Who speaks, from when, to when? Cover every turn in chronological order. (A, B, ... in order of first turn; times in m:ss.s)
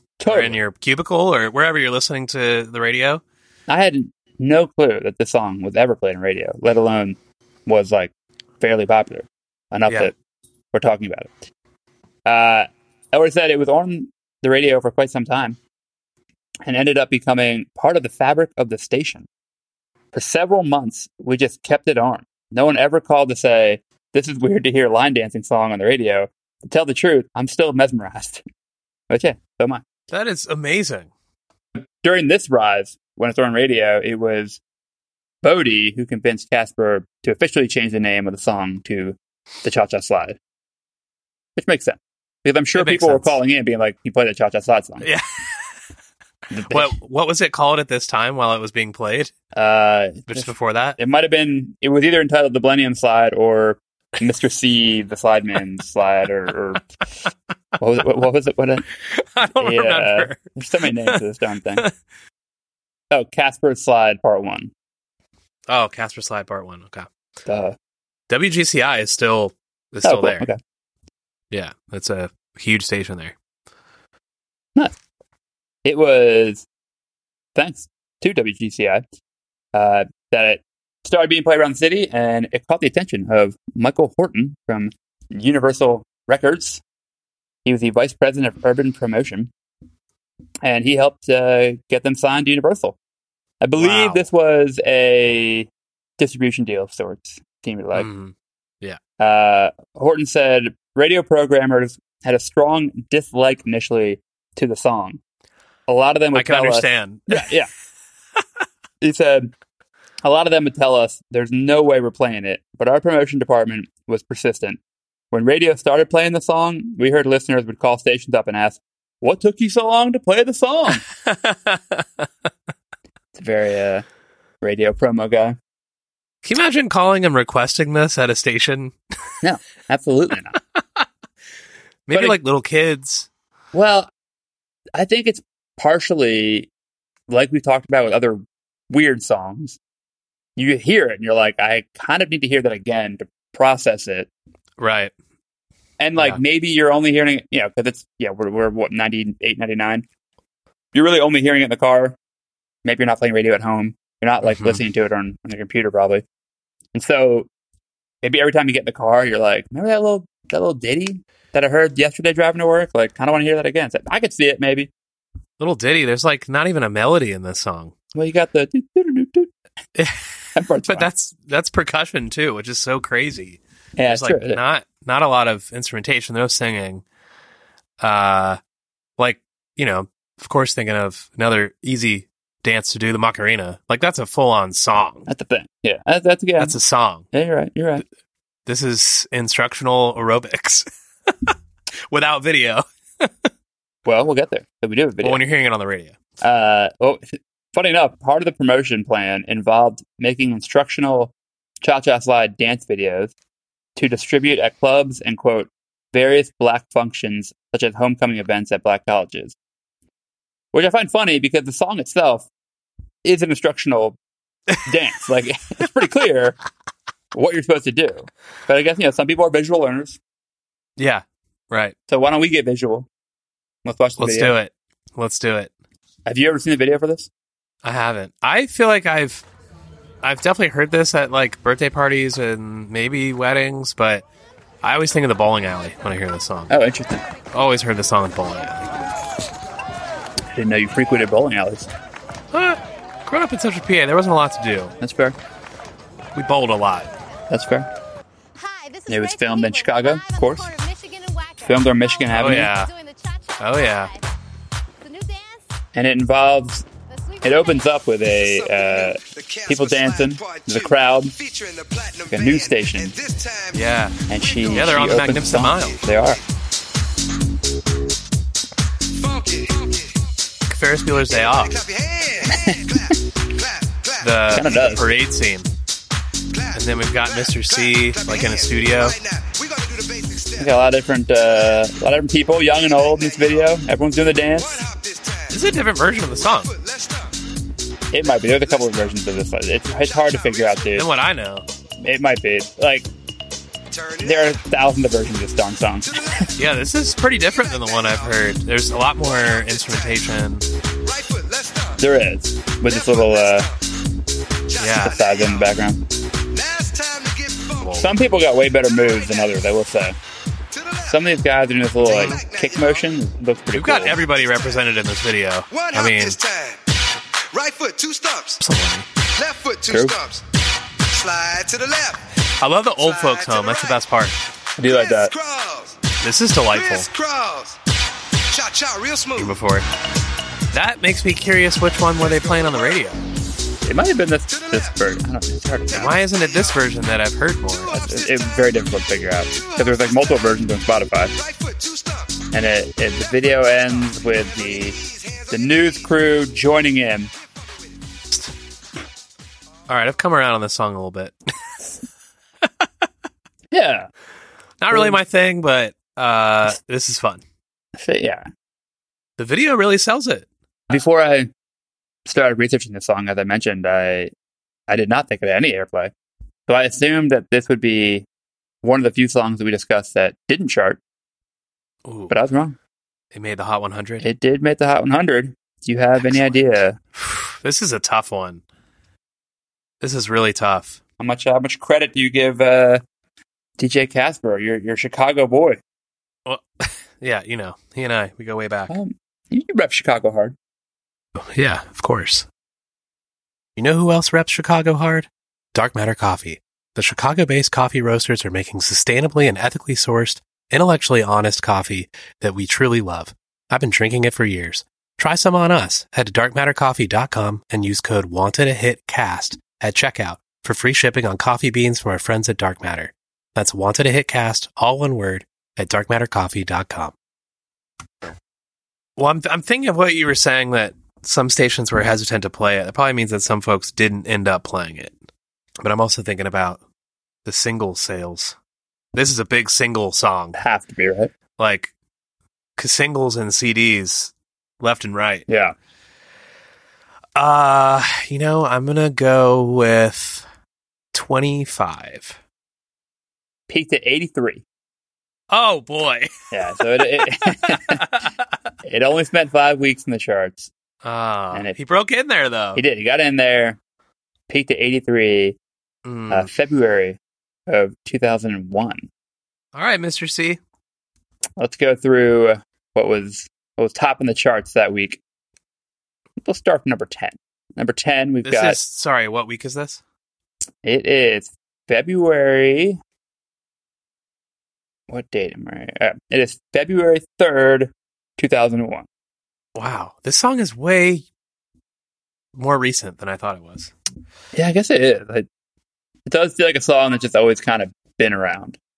0:00.2-0:00.6 A
0:00.3-0:03.2 B
0:03.7-0:10.1 A
0:10.7-0:11.3 A
0:12.3-0:15.6 A
0:16.7-0:19.3 A
0:20.1-0:28.4 A
0:29.1-0:29.8 A
0:30.1-0:31.1 B
0:31.8-0:34.6 A
0:35.4-0:40.4 A
0:41.6-0:45.1 A
0:42.8-0:43.4 B
0:45.0-0:45.6 B
0:46.5-0:46.9 A
0:46.7-0:49.3 B
0:49.5-0:56.8 A
0:50.3-0:51.0 B
0:57.8-0:58.8 A
0:59.1-1:01.2 B
0:59.6-1:01.9 A
1:03.1-1:04.7 A
1:05.7-1:07.1 B
1:07.5-1:07.8 A
1:08.3-1:10.5 B
1:10.0-1:10.6 A
1:11.5-1:13.4 B
1:15.8-1:16.6 A
1:17.6-1:19.0 A
1:19.7-1:26.8 A
1:27.6-1:29.5 A
1:30.6-1:33.0 A
1:33.6-1:38.1 A
1:33.8-1:34.2 B
1:37.9-1:39.0 B
1:39.2-1:45.2 A
1:45.9-1:47.7 A
1:46.3-1:47.5 B
1:49.0-1:49.5 A
1:50.2-1:54.8 A
1:55.3-2:01.0 A
2:01.2-2:02.3 B
2:03.4-2:04.0 A
2:04.6-2:05.6 A
2:06.4-2:09.0 B
2:09.4-2:10.6 A
2:12.1-2:13.3 B
2:13.7-2:14.1 A
2:15.0-2:16.7 A
2:17.3-2:19.8 A
2:20.6-2:24.3 A
2:24.8-2:25.1 B
2:26.0-2:30.0 A
2:30.9-2:32.2 A
2:32.8-2:36.2 A
2:34.4-2:34.8 B
2:36.9-2:37.5 A
2:38.2-2:44.9 A
2:45.6-2:47.9 B
2:48.1-2:49.5 A
2:50.0-2:50.3 B
2:50.6-2:51.1 A
2:50.8-2:57.0 B
2:54.0-2:54.6 A
2:58.0-2:58.6 B
2:59.2-3:05.3 B
3:05.3-3:06.8 A
3:06.6-3:07.3 B
3:07.3-3:08.0 A
3:08.7-3:11.5 B
3:12.1-3:13.5 B
3:14.1-3:15.4 A
3:15.2-3:16.2 B
3:16.4-3:23.3 A
3:24.0-3:29.6 A
3:30.7-3:32.5 A
3:33.2-3:34.2 A
3:34.8-3:36.6 A
3:37.3-3:40.2 A
3:41.0-3:42.0 B
3:42.1-3:43.1 A
3:43.8-3:44.6 A
3:44.2-3:45.7 B
3:46.3-3:47.3 A
3:47.8-3:49.4 B
3:50.2-3:54.2 B
3:54.8-3:56.7 B
3:56.7-3:57.3 A
3:57.5-3:58.9 B
4:00.5-4:01.9 A
4:02.5-4:04.9 B
4:05.0-4:05.4 A
4:06.4-4:07.1 B
4:07.5-4:07.9 A
4:08.6-4:14.2 C
4:09.1-4:10.7 A
4:11.7-4:12.7 A
4:12.4-4:12.9 B
4:13.6-4:14.1 B
4:15.0-4:15.6 C
4:16.0-4:16.8 A
4:17.1-4:18.0 C
4:17.4-4:21.4 A
4:18.3-4:26.4 D
4:22.3-4:23.1 A
4:23.7-4:24.2 B
4:24.3-4:26.4 A
4:24.7-4:26.0 B
4:29.1-4:30.3 D
4:30.7-4:31.8 B
4:31.3-4:35.0 D
4:32.5-4:32.8 A
4:34.2-4:35.7 B
4:34.5-4:35.0 A
4:36.5-4:40.8 D
4:36.7-4:39.2 B
4:40.6-4:44.8 A
4:41.4-4:41.9 D
4:42.5-4:43.8 D
4:44.4-4:47.4 D
4:45.5-4:46.7 B
4:48.1-4:51.1 A
4:48.2-4:49.2 D
4:49.9-4:51.1 D
4:51.0-4:51.6 B
4:52.0-4:53.1 A
4:53.9-4:54.6 D
4:54.2-4:56.1 A
4:56.0-4:56.8 D
4:56.6-5:00.7 B
4:57.4-5:00.4 D
5:01.0-5:02.0 D
5:02.0-5:03.7 A
5:02.8-5:03.8 D
5:04.7-5:05.8 D
5:04.8-5:05.2 B
5:05.0-5:06.0 A
5:06.5-5:08.3 D
5:07.8-5:08.1 B
5:08.0-5:10.2 A
5:08.8-5:09.7 D
5:10.7-5:11.2 D
5:11.1-5:14.2 A
5:12.0-5:13.1 D
5:12.0-5:12.4 B
5:13.7-5:16.4 B
5:14.1-5:14.9 D
5:15.7-5:17.0 D
5:17.5-5:18.6 D
5:18.6-5:19.1 B
5:19.3-5:20.5 D
5:21.0-5:22.3 D
5:22.6-5:24.4 B
5:23.0-5:24.0 D
5:24.8-5:25.3 A
5:24.8-5:26.0 D
5:26.2-5:27.1 B
5:26.7-5:27.8 D
5:28.5-5:29.6 D
5:29.4-5:29.9 B
5:30.7-5:33.2 B
5:32.2-5:33.2 D
5:33.8-5:36.2 A
5:34.5-5:35.1 D
5:35.9-5:37.0 D
5:35.9-5:37.9 B
5:37.8-5:38.8 D
5:37.9-5:41.3 A
5:39.5-5:40.6 D
5:41.3-5:42.5 D
5:42.5-5:45.0 A
5:43.3-5:46.4 D
5:45.5-5:47.3 A
5:47.3-5:48.0 D
5:49.9-5:51.4 B
5:53.7-5:54.1 A
5:54.8-5:57.4 B
5:54.9-5:55.2 A
5:58.0-5:58.5 A
5:59.4-6:00.5 B
6:00.9-6:01.5 A
6:02.3-6:04.3 A
6:04.9-6:06.1 A
6:06.7-6:08.2 A
6:08.8-6:11.0 A
6:12.0-6:12.3 B
6:12.3-6:12.8 A
6:13.3-6:14.2 B
6:14.2-6:17.0 A
6:16.2-6:16.5 B
6:17.2-6:18.6 B
6:20.0-6:21.0 B
6:21.2-6:23.0 A
6:23.8-6:25.8 A
6:26.5-6:28.9 B
6:28.9-6:30.6 A
6:31.4-6:32.5 B
6:33.8-6:57.1 B
6:59.2-7:05.2 B
7:05.8-7:06.8 B
7:07.4-7:08.6 B
7:09.2-7:10.6 B
7:10.6-7:11.3 A
7:11.6-7:11.9 B
7:12.8-7:15.5 B
7:15.5-7:15.8 A
7:17.4-7:20.4 B
7:21.1-7:22.4 B
7:23.7-7:24.6 A
7:25.5-7:28.4 B
7:26.5-7:28.0 A
7:28.8-7:30.7 A
7:31.0-7:32.8 B
7:32.8-7:33.8 A
7:34.5-7:35.6 A
7:36.0-7:36.5 B
7:36.3-7:39.1 A
7:39.7-7:40.6 B
7:41.6-7:45.2 A
7:46.4-7:48.8 A
7:48.4-7:50.0 B
7:50.8-7:53.0 A
7:55.1-7:59.1 A
7:59.8-8:01.2 B
8:02.6-8:03.9 B
8:04.5-8:05.5 A
8:06.3-8:08.8 A